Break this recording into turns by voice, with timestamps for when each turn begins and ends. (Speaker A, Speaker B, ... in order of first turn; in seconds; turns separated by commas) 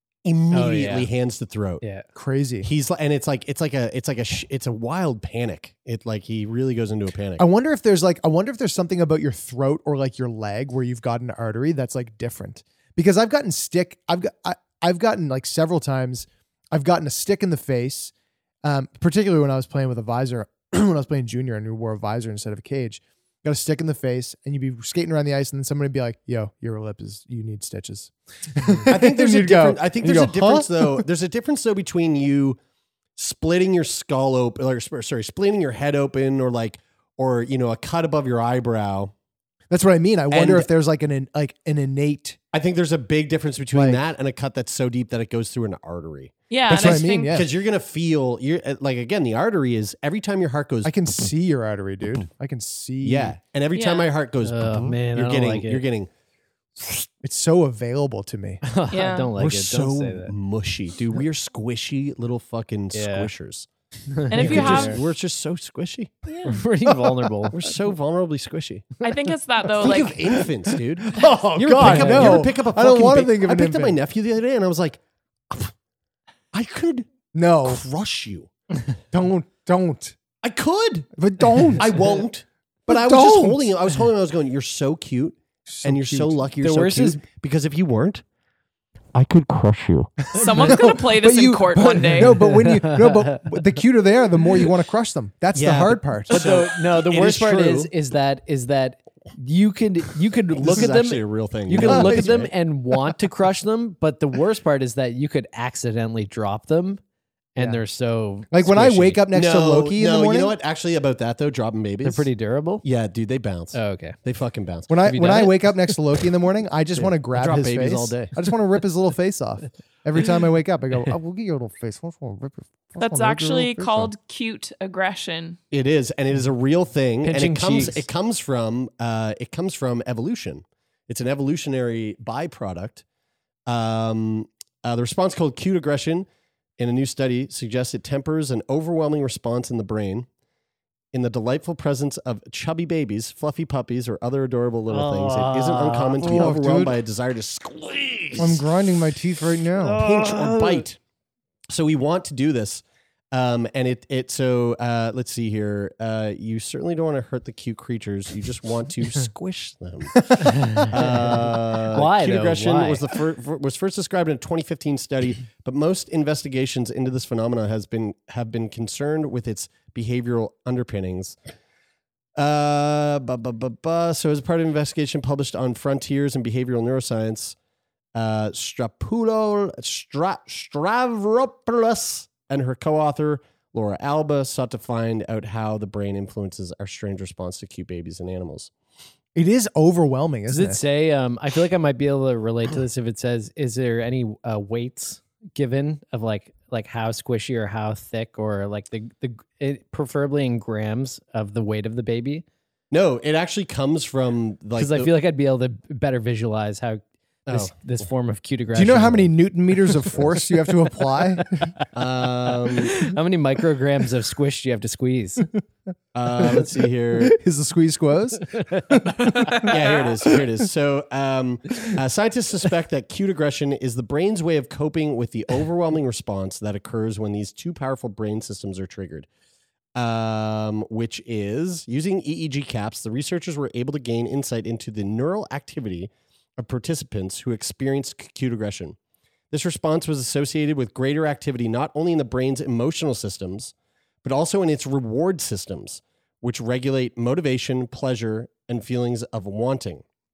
Speaker A: 0.2-1.8, Speaker B: 0.5-1.1, Speaker B: 1.8-2.0, Speaker C: 2.1-2.7, Speaker A: 2.6-7.4, Speaker C: 7.4-31.1, Speaker A: 28.9-32.6, Speaker A: 33.2-39.1, Speaker C: 39.7-42.4, Speaker A: 40.3-40.7, Speaker A: 42.5-51.0, Speaker C: 43.7-44.0, Speaker D: 46.5-47.4, Speaker C: 46.7-47.5, Speaker C: 50.8-53.4, Speaker A: 53.0-56.1, Speaker D: 53.7-54.1, Speaker B: 54.4-55.8, Speaker A: 56.8-57.1, Speaker C: 57.2-58.6, Speaker B: 58.6-60.3, Speaker D: 58.9-59.3, Speaker A: 59.4-63.7, Speaker B: 62.9-63.3, Speaker B: 64.1-64.9, Speaker D: 64.3-65.0, Speaker A: 64.3-66.2, Speaker C: 64.4-64.9, Speaker B: 66.5-67.6, Speaker C: 67.0-67.3, Speaker A: 67.5-68.9, Speaker D: 69.0-70.2, Speaker A: 69.8-75.7, Speaker C: 71.2-74.0, Speaker B: 71.2-72.5, Speaker A: 76.5-77.1, Speaker C: 77.3-77.8, Speaker A: 77.6-78.5, Speaker C: 79.1-80.2, Speaker A: 80.4-81.1, Speaker C: 81.1-82.0, Speaker A: 81.7-88.2, Speaker C: 82.9-83.7, Speaker C: 85.7-86.4, Speaker B: 86.6-87.2, Speaker A: 89.1-90.1, Speaker C: 90.3-96.4, Speaker D: 90.3-92.3, Speaker B: 92.2-93.6, Speaker A: 95.5-97.9, Speaker B: 96.3-107.0, Speaker A: 100.5-102.5, Speaker C: 101.8-102.4, Speaker B: 107.5-109.2, Speaker C: 107.6-107.8, Speaker C: 108.5-110.5, Speaker A: 109.3-112.3, Speaker B: 112.0-112.8, Speaker A: 112.8-114.9, Speaker B: 113.7-114.2, Speaker C: 114.9-124.1, Speaker B: 115.0-116.0, Speaker A: 117.3-118.3, Speaker D: 123.0-125.6, Speaker A: 125.7-133.0, Speaker B: 127.2-128.1, Speaker A: 133.7-136.3, Speaker A: 136.8-140.3, Speaker A: 141.1-148.6, Speaker B: 144.9-146.5, Speaker C: 146.2-147.0, Speaker C: 148.4-150.1, Speaker B: 149.8-150.8, Speaker A: 149.9-151.0, Speaker A: 151.7-171.4, Speaker B: 160.4-163.0, Speaker A: 172.3-177.6, Speaker A: 178.1-188.7, Speaker C: 189.3-190.8, Speaker B: 190.5-202.4, Speaker A: 202.9-205.1, Speaker B: 204.8-209.3, Speaker A: 207.5-207.7, Speaker C: 208.7-211.7, Speaker A: 211.9-213.0, Speaker B: 212.6-215.5, Speaker A: 216.1-217.3, Speaker C: 217.2-219.7, Speaker B: 218.5-219.7, Speaker A: 219.6-229.3, Speaker A: 229.9-239.0, Speaker A: 239.5-250.0